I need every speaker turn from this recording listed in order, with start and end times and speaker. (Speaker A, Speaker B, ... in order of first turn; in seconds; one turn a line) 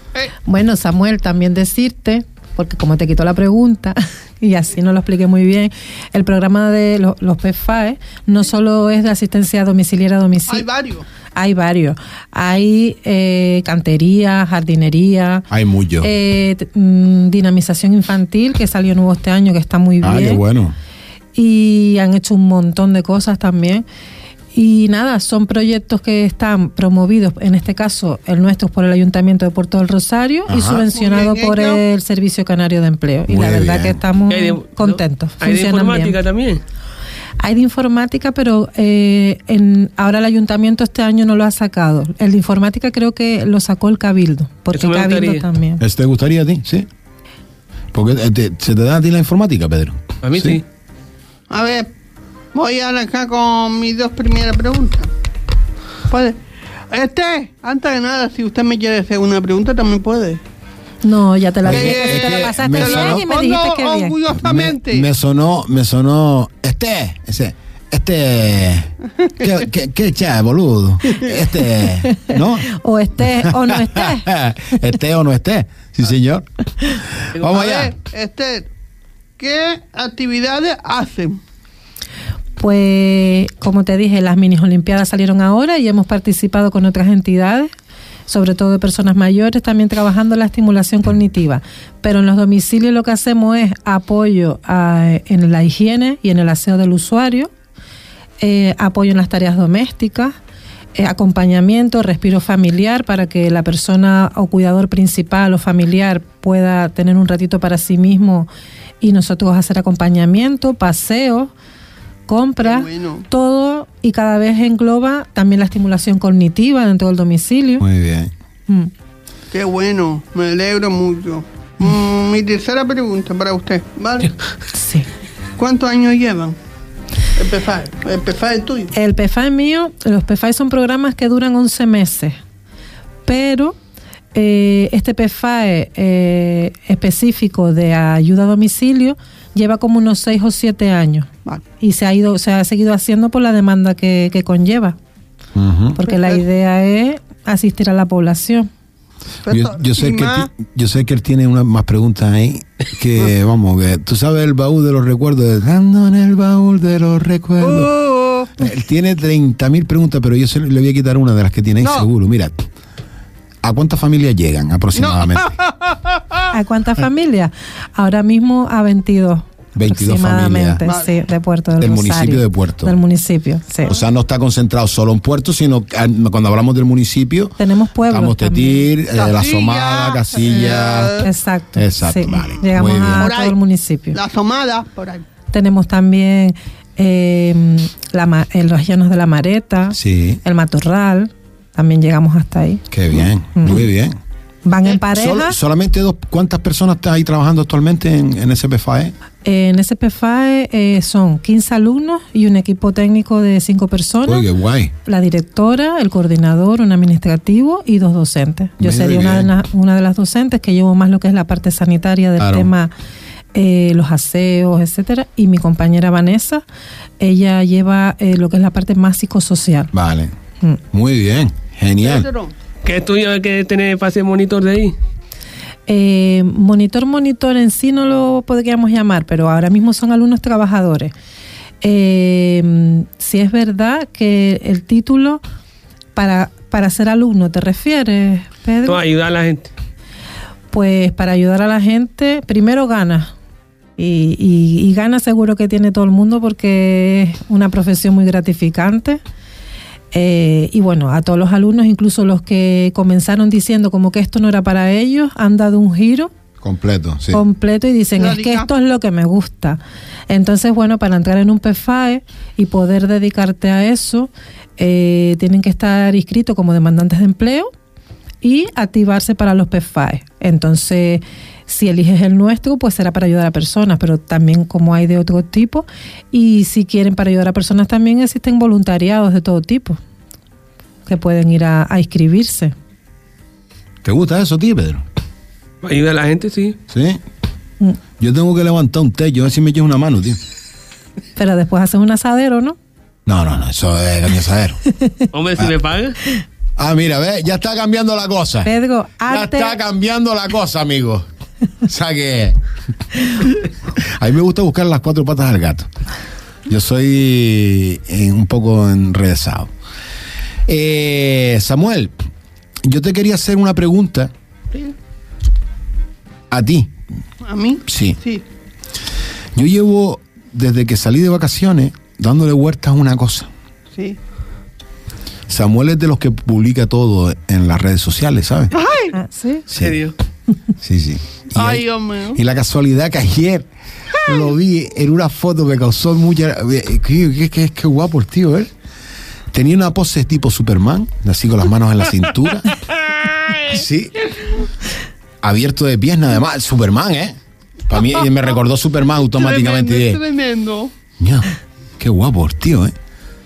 Speaker A: 0.5-10.7
Speaker B: 10.5-11.1
Speaker A: 11.3-15.5
Speaker C: 15.5-16.1
Speaker A: 16.0-20.4
Speaker C: 20.0-20.7
Speaker A: 21.3-23.8
Speaker A: 24.5-36.2
Speaker C: 30.5-30.9
Speaker B: 30.9-31.8
Speaker C: 33.3-34.0
Speaker D: 34.3-36.6
Speaker A: 37.4-45.8
Speaker D: 44.7-45.4
Speaker C: 45.8-46.9
Speaker C: 47.9-50.6
Speaker D: 50.2-50.6
Speaker B: 51.5-51.9
Speaker B: 52.5-55.1
Speaker B: 56.1-56.4
Speaker B: 56.9-60.4
Speaker A: 61.0-64.2
Speaker C: 61.6-63.2
Speaker B: 61.7-65.1
Speaker C: 64.3-77.9
Speaker B: 69.2-69.5
Speaker A: 72.0-74.3
Speaker B: 77.4-78.7
Speaker B: 79.4-81.4
Speaker A: 82.6-87.7
Speaker A: 88.3-97.5
Speaker A: 98.4-100.3
Speaker A: 100.9-108.5
Speaker A: 109.0-111.5
Speaker A: 112.3-117.8
Speaker B: 112.6-113.2
Speaker C: 117.8-118.3
Speaker B: 119.5-124.3
Speaker A: 124.7-125.1
Speaker B: 125.6-126.5
Speaker B: 127.3-128.9
Speaker A: 128.9-132.4
Speaker A: 133.2-133.8
Speaker A: 134.3-141.3
Speaker A: 141.8-145.0
Speaker C: 145.5-146.0
Speaker A: 145.9-148.7
Speaker B: 146.1-146.4
Speaker B: 149.4-150.5
Speaker C: 149.5-157.9
Speaker B: 157.6-158.5
Speaker C: 158.6-162.5
Speaker B: 161.8-162.1
Speaker C: 163.6-165.5
Speaker B: 164.9-166.5
Speaker A: 166.5-173.9
Speaker C: 169.7-170.8
Speaker B: 170.8-171.1
Speaker C: 171.8-173.0
Speaker C: 173.8-183.3
Speaker A: 177.6-178.9
Speaker B: 179.1-181.3
Speaker A: 181.2-184.2
Speaker B: 183.1-183.6
Speaker B: 184.1-185.2
Speaker A: 185.5-192.8
Speaker C: 189.9-190.4
Speaker C: 192.9-194.1
Speaker A: 193.6-193.8
Speaker A: 194.6-195.6
Speaker C: 194.9-199.1
Speaker A: 199.4-204.4
Speaker C: 204.3-204.9
Speaker A: 205.0-212.9
Speaker C: 208.8-209.5
Speaker C: 212.4-212.7
Speaker A: 213.5-216.6
Speaker A: 217.2-219.9
Speaker C: 219.9-220.3
Speaker C: 220.9-222.3
Speaker B: 222.0-222.5
Speaker D: 222.8-224.9
Speaker A: 225.9-231.1
Speaker A: 231.8-235.4
Speaker A: 236.1-239.0
Speaker D: 238.8-239.7
Speaker A: 240.7-243.3
Speaker A: 244.0-249.2
Speaker A: 250.1-256.3
Speaker C: 256.6-257.4
Speaker A: 257.3-267.7
Speaker B: 258.2-258.7
Speaker A: 268.4-280.0
Speaker A: 281.1-282.7
Speaker C: 284.0-285.0
Speaker D: 285.8-286.8
Speaker C: 286.9-287.2
Speaker C: 288.2-290.4
Speaker A: 291.4-292.8
Speaker C: 293.2-294.8
Speaker A: 294.9-295.2
Speaker D: 295.3-296.2
Speaker C: 296.8-298.7
Speaker A: 298.6-299.8
Speaker C: 299.3-301.2
Speaker C: 301.8-302.6
Speaker C: 303.4-305.9
Speaker C: 306.7-309.7
Speaker C: 310.7-312.1
Speaker C: 312.8-314.3
Speaker C: 316.5-316.9
Speaker B: 317.4-318.4
Speaker C: 317.9-318.2
Speaker C: 319.5-323.5
Speaker C: 325.5-328.7
Speaker B: 328.7-329.1
Speaker A: 329.1-329.6
Speaker C: 329.7-330.0
Speaker D: 329.7-330.1
Speaker C: 330.8-333.7
Speaker B: 331.5-332.4
Speaker C: 334.2-338.7
Speaker C: 339.5-342.7
Speaker B: 342.9-344.7
Speaker C: 343.7-344.1
Speaker C: 345.4-347.4
Speaker C: 347.9-350.2
Speaker B: 349.3-350.9
Speaker C: 351.2-352.9